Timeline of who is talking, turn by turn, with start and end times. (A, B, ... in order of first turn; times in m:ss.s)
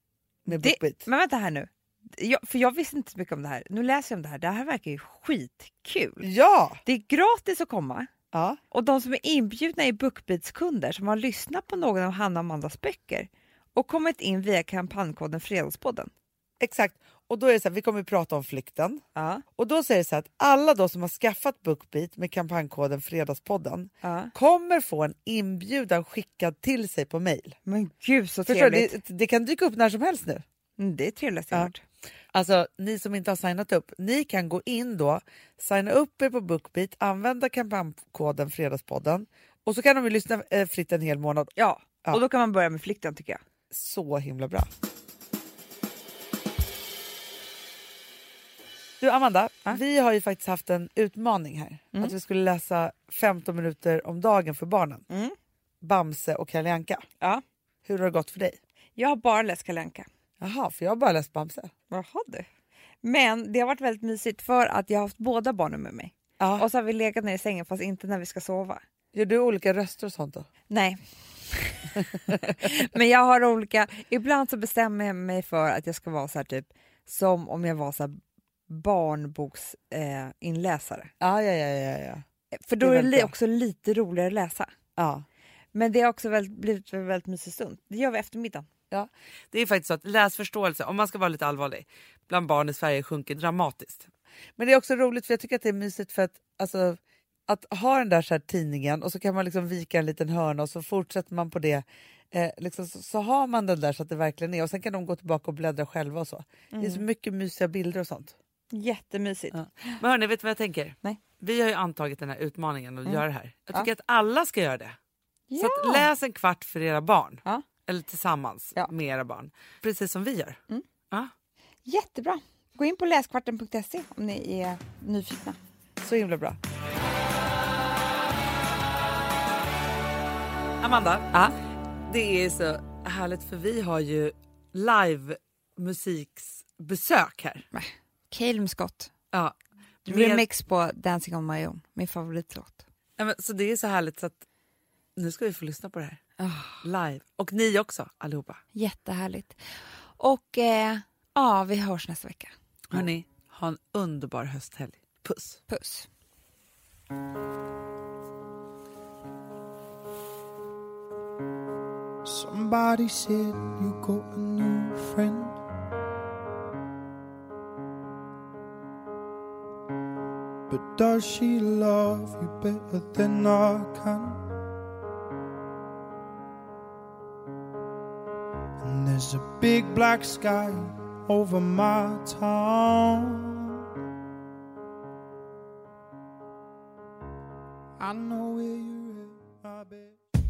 0:00.4-0:01.0 A
0:00.5-0:06.3 B
0:06.2-0:06.8 A
0:06.8-0:08.1 B
0:08.3-0:08.6 A
0:08.7-0:16.1 B
0:16.6-0:19.0 A
0:19.1-0:19.4 B
0:19.6-0:27.6 A
0:24.0-0:24.3 B
0:27.6-0:29.0 B
0:28.5-0:30.4 A
0:30.8-0:31.8 B
0:32.3-0:41.5 A
0:41.6-0:43.4 B
0:43.7-0:44.7 A
0:49.0-0:55.0 A
0:55.1-0:55.4 B
0:55.8-0:57.1 A
0:57.8-0:58.6 A
0:59.0-1:00.1 B
1:00.4-1:01.7 A
1:01.9-1:02.4 B
1:03.0-1:08.8 B
1:06.4-1:06.6 A
1:09.1-1:10.5 A
1:10.7-1:21.1 B
1:12.3-1:12.5 A
1:21.2-1:22.2 A
1:22.6-1:24.7 B
1:22.8-1:23.3 A
1:25.0-1:25.2 A
1:25.7-1:28.7 B
1:28.9-1:48.3 A
1:46.7-1:47.0 B
1:48.7-1:50.0 B
1:49.5-1:55.0 A
1:55.5-1:56.1 B
1:55.6-2:00.6 A
2:01.8-2:05.6 B
2:06.0-2:06.6 A
2:10.8-2:11.3 A
2:12.1-2:17.6 A
2:17.7-2:19.1 B
2:19.3-2:20.4 A
2:20.1-2:22.8 B
2:23.2-2:24.4 A
2:25.2-2:26.2 A
2:26.4-2:26.8 B
2:26.8-2:28.6 A
2:28.7-2:33.0 B
2:32.9-2:35.6 A
2:35.7-2:36.1 B
2:42.2-2:45.6 C
2:50.7-2:54.6 C
2:58.8-3:03.8 C
3:08.0-3:10.2 C